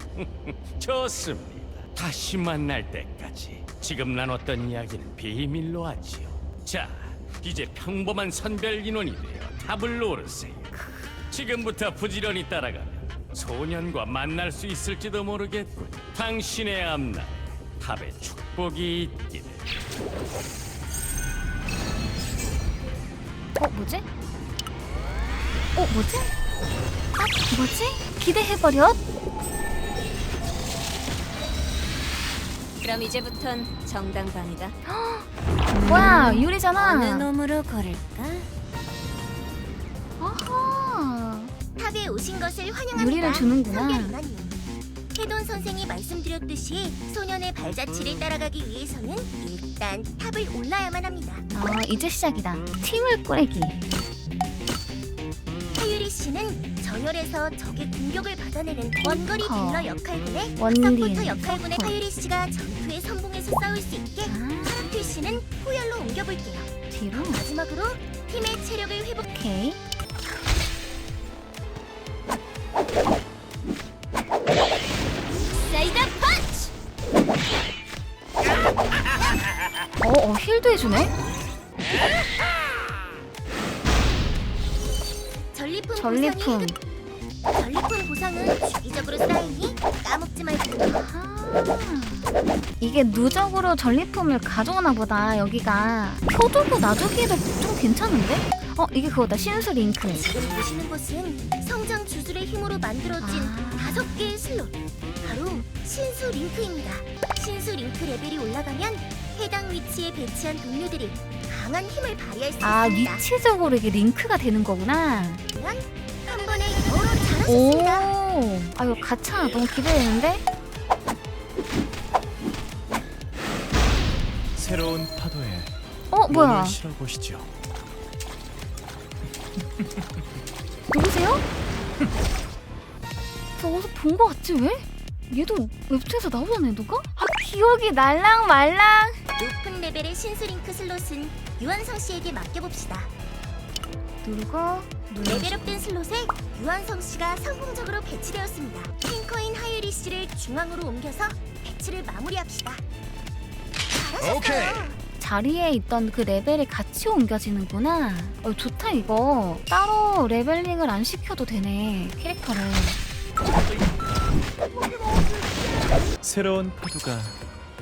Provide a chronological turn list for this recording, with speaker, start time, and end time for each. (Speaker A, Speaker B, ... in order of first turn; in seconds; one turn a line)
Speaker A: 0.1-10.7
Speaker A: 11.3-19.7
Speaker B: 23.6-24.1
Speaker B: 25.8-26.3
Speaker B: 27.2-29.0
Speaker C: 32.8-34.7
Speaker B: 34.8-37.3
Speaker C: 35.7-38.5
Speaker B: 40.2-41.5
Speaker D: 41.8-44.6
Speaker B: 42.9-44.2
Speaker D: 45.1-51.4
Speaker B: 51.5-53.8
Speaker D: 55.7-69.2
Speaker B: 59.0-59.9
Speaker B: 60.6-62.0
Speaker B: 64.2-64.8
Speaker B: 66.9-67.4
Speaker B: 69.3-69.8
Speaker C: 75.6-76.7
Speaker B: 80.0-81.1
Speaker D: 85.5-86.7
Speaker B: 86.0-86.8
Speaker D: 87.5-91.0
Speaker B: 90.8-100.2
Speaker D: 100.2-113.2
Speaker B: 103.2-104.3
Speaker B: 112.6-115.4
Speaker D: 115.5-118.1
Speaker B: 117.5-120.4
Speaker E: 124.5-125.7
Speaker B: 126.1-126.8
Speaker E: 126.3-127.5
Speaker B: 130.9-131.4
Speaker B: 133.6-139.2
Speaker D: 139.4-143.1
Speaker B: 144.2-145.9
Speaker D: 145.2-152.8
Speaker D: 153.9-155.0
Speaker B: 155.2-163.0
Speaker E: 166.2-167.4